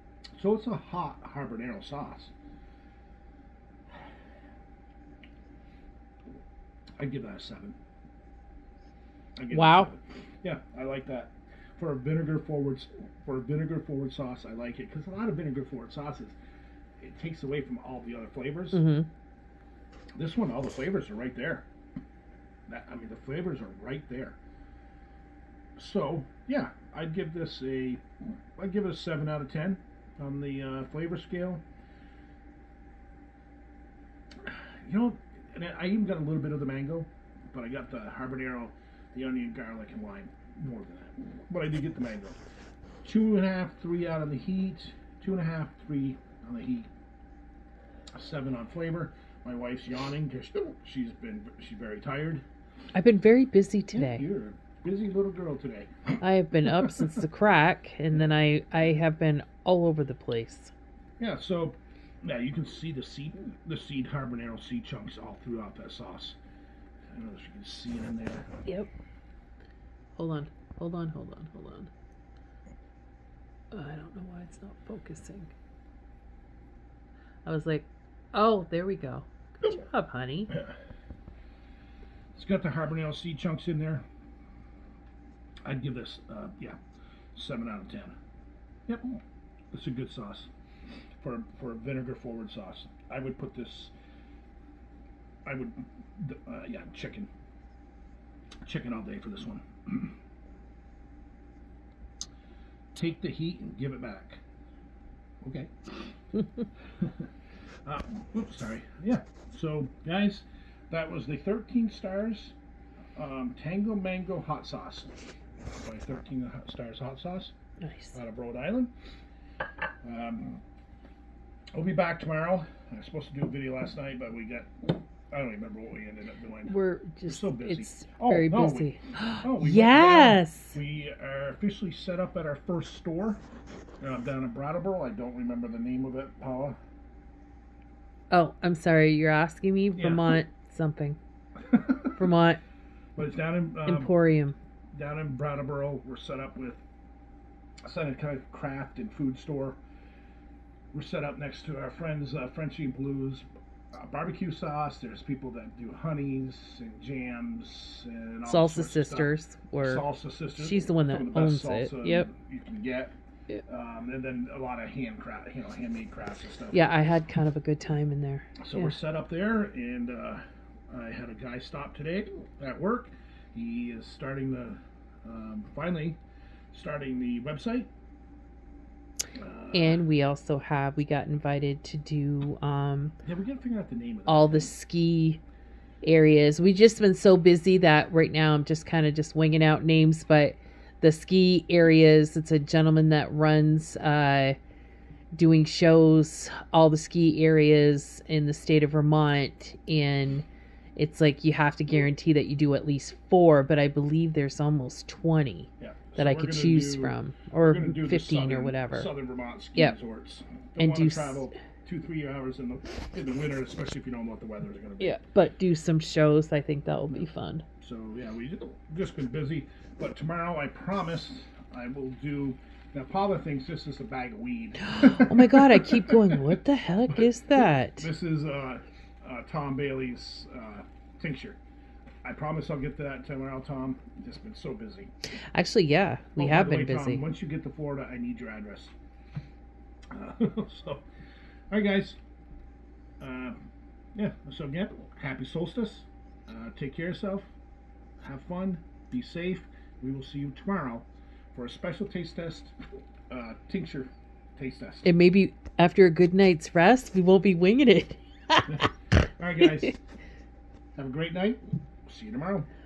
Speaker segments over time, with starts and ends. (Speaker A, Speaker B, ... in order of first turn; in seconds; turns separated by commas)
Speaker A: 0.4-2.3, Speaker A: 7.0-7.8, Speaker A: 9.4-16.4, Speaker B: 9.5-9.9, Speaker A: 17.0-18.8, Speaker B: 18.7-19.1, Speaker A: 20.2-21.7, Speaker A: 22.7-24.4, Speaker A: 25.8-28.0, Speaker A: 28.6-31.6, Speaker A: 34.4-42.4, Speaker A: 43.0-46.9, Speaker A: 48.1-52.4, Speaker B: 52.9-54.2, Speaker A: 53.9-56.2, Speaker B: 56.2-60.7, Speaker A: 61.2-66.4, Speaker A: 67.1-68.5, Speaker B: 70.2-71.9, Speaker B: 73.7-75.5, Speaker B: 77.5-80.5, Speaker A: 82.3-84.0, Speaker A: 85.7-86.8, Speaker A: 87.3-88.2, Speaker A: 88.9-89.2, Speaker A: 89.7-90.5, Speaker A: 91.2-93.9, Speaker A: 95.5-97.3, Speaker A: 98.6-100.2, Speaker A: 103.0-104.4, Speaker A: 105.4-106.1, Speaker A: 107.0-107.3, Speaker A: 107.8-112.5, Speaker A: 113.2-115.1, Speaker A: 115.7-117.5, Speaker B: 117.8-118.2, Speaker A: 118.1-118.9, Speaker A: 120.0-120.6, Speaker A: 121.8-133.4, Speaker B: 126.7-130.8, Speaker A: 134.0-136.8, Speaker B: 138.3-141.2, Speaker A: 139.9-140.4, Speaker A: 141.7-142.2, Speaker B: 142.2-142.6, Speaker A: 143.2-144.1, Speaker B: 143.8-144.6, Speaker A: 144.9-146.8, Speaker A: 147.8-149.8, Speaker A: 150.9-163.1, Speaker B: 158.4-162.3, Speaker A: 163.7-166.9, Speaker B: 166.7-168.9, Speaker A: 168.6-176.2, Speaker A: 176.7-177.9, Speaker A: 179.3-180.0, Speaker B: 179.7-183.1, Speaker A: 183.2-184.7, Speaker B: 184.3-185.4, Speaker B: 186.0-194.6, Speaker B: 195.3-200.4, Speaker B: 201.0-209.1, Speaker A: 205.8-215.2, Speaker B: 210.8-211.5, Speaker B: 215.0-217.7, Speaker A: 217.8-226.2, Speaker B: 224.8-228.1, Speaker A: 227.1-231.6, Speaker A: 232.2-235.1, Speaker B: 235.5-237.3, Speaker A: 236.4-238.9, Speaker A: 240.1-241.0, Speaker A: 241.7-242.2, Speaker A: 243.2-247.5, Speaker A: 248.2-252.8, Speaker A: 253.3-255.1, Speaker B: 255.0-258.9, Speaker A: 258.7-260.0, Speaker A: 260.9-262.7